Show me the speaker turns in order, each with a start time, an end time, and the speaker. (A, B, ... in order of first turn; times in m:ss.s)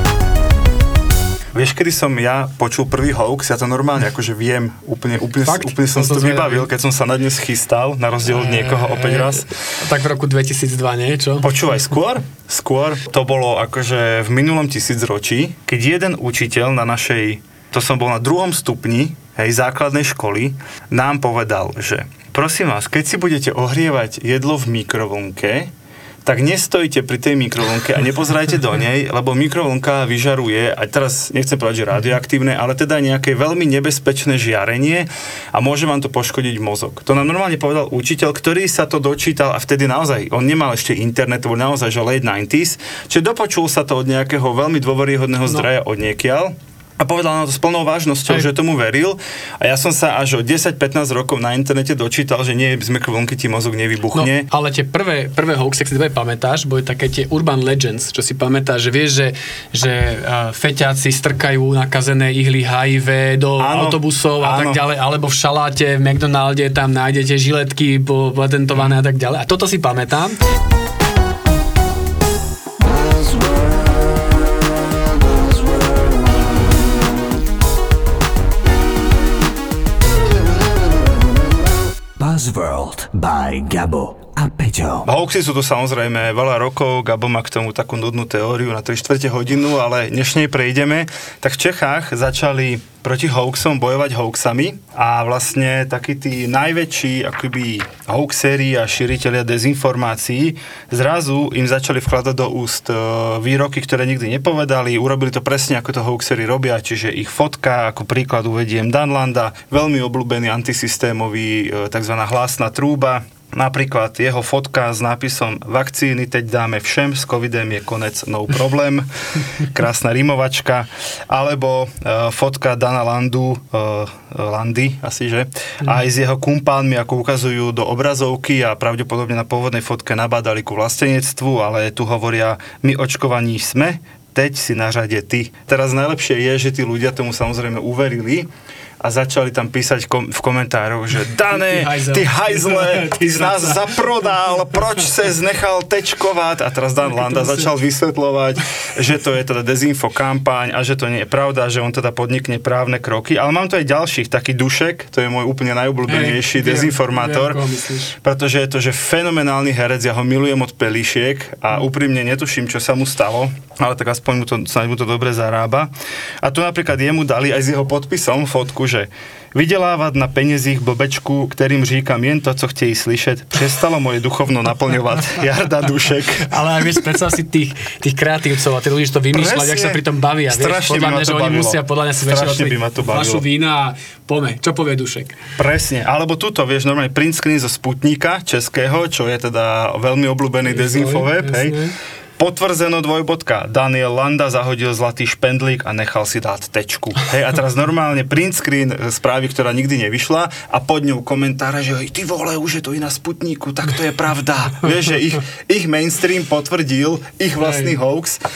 0:01.5-0:09.5 A
0:05.4-0:06.7 B
0:08.2-0:11.5 B
0:11.4-0:25.7 A
0:26.2-0:54.5 A
0:54.1-1:10.4 B
1:03.6-1:04.8 A
1:22.2-1:25.1 C
1:25.0-2:18.5 A
2:19.0-2:37.6 A
2:21.5-2:24.0 B
2:36.1-2:38.2 B
2:38.2-2:45.9 A
2:46.4-2:56.5 A
2:56.4-3:05.4 B
2:59.3-3:03.4 A
3:05.6-3:11.8 A
3:10.7-3:11.9 B
3:12.4-3:28.4 A
3:27.6-3:27.9 B